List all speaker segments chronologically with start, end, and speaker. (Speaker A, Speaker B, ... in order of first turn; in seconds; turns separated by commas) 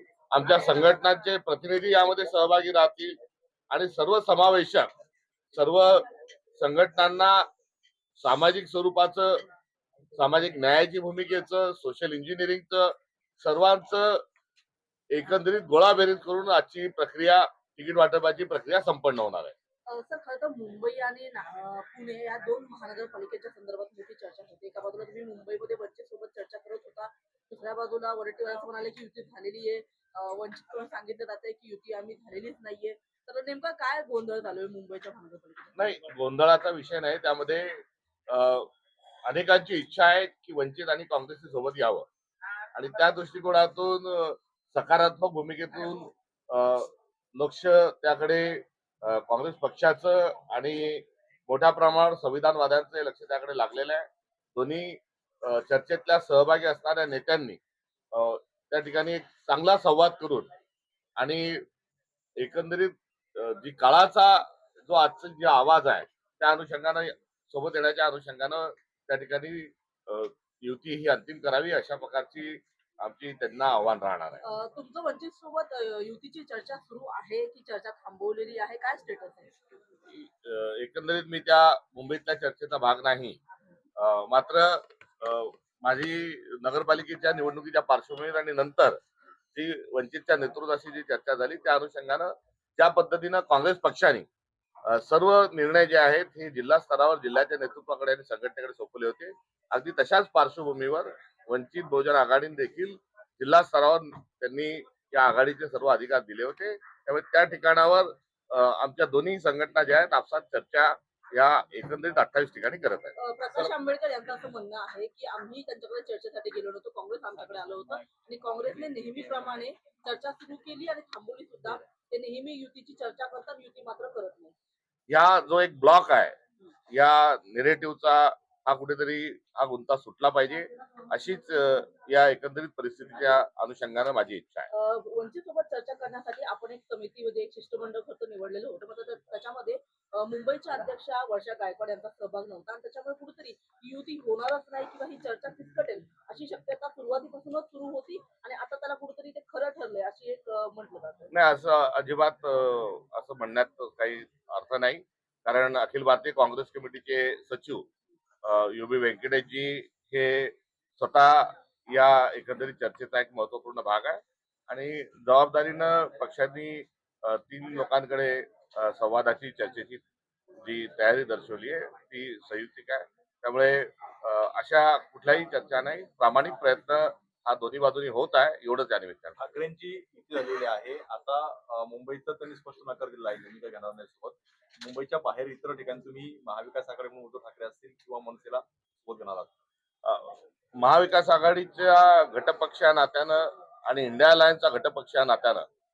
Speaker A: 0.3-3.1, Speaker A: 3.7-4.9, Speaker A: 5.5-7.5, Speaker A: 8.2-9.4, Speaker A: 10.1-14.2, Speaker A: 15.1-19.5, Speaker B: 19.9-35.9, Speaker A: 35.8-38.7, Speaker A: 39.2-42.0, Speaker A: 42.7-57.6, Speaker A: 58.1-60.5, Speaker A: 61.2-61.6, Speaker A: 62.4-74.4, Speaker B: 74.4-79.5, Speaker A: 80.1-83.4, Speaker A: 84.0-89.0, Speaker A: 89.5-94.3, Speaker A: 94.8-113.7, Speaker B: 113.2-124.5, Speaker A: 125.1-126.3, Speaker A: 126.9-134.7, Speaker B: 134.7-151.3, Speaker A: 151.3-157.8, Speaker A: 158.4-170.0, Speaker A: 170.6-179.4, Speaker C: 179.4-189.5, Speaker A: 190.0-195.7